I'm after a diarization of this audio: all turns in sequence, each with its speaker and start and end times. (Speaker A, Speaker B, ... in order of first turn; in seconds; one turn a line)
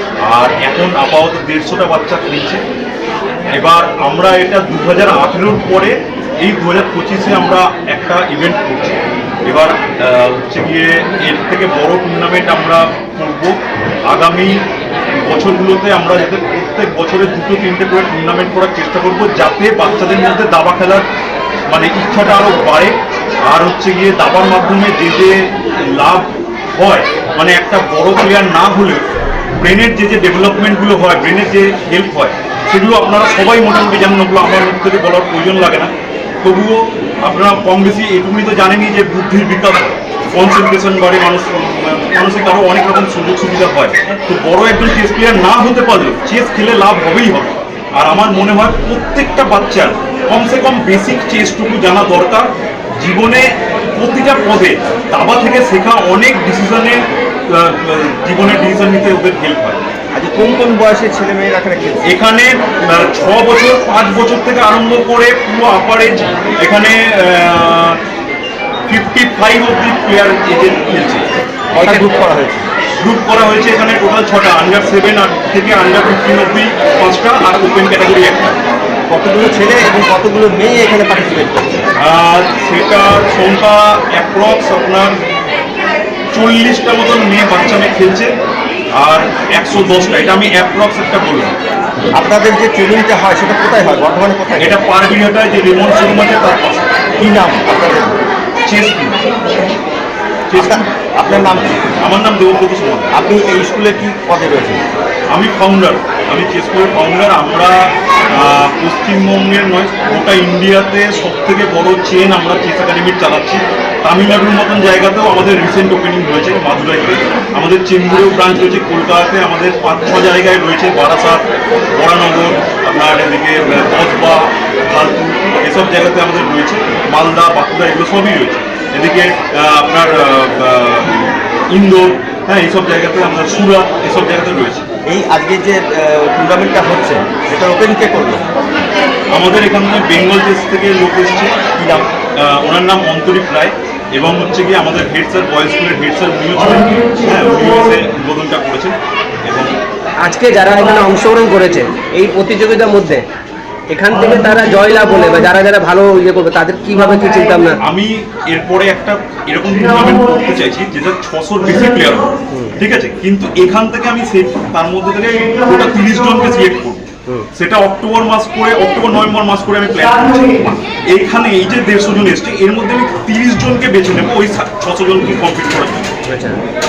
Speaker A: 0.2-2.6
Speaker A: 3.5-13.6
Speaker A: 14.1-14.6
Speaker A: 15.2-21.1
Speaker A: 21.7-29.0
Speaker A: 29.6-35.9
Speaker A: 36.4-59.8
Speaker B: 60.1-62.0
Speaker A: 62.0-68.0
Speaker A: 68.9-71.3
Speaker B: 71.7-72.7
Speaker A: 73.0-78.6
Speaker B: 79.1-81.8
Speaker A: 82.0-85.2
Speaker A: 86.3-88.3
Speaker A: 89.0-91.6
Speaker B: 92.1-94.8
Speaker A: 94.6-97.0
Speaker B: 97.2-98.2
Speaker A: 98.7-99.2
Speaker A: 100.5-103.1
Speaker B: 100.5-101.9
Speaker B: 103.1-104.8
Speaker A: 105.3-134.8
Speaker B: 135.1-138.5
Speaker A: 139.3-149.8
Speaker C: 150.2-153.3
Speaker C: 153.9-157.8
Speaker A: 157.8-176.1
Speaker C: 176.2-176.6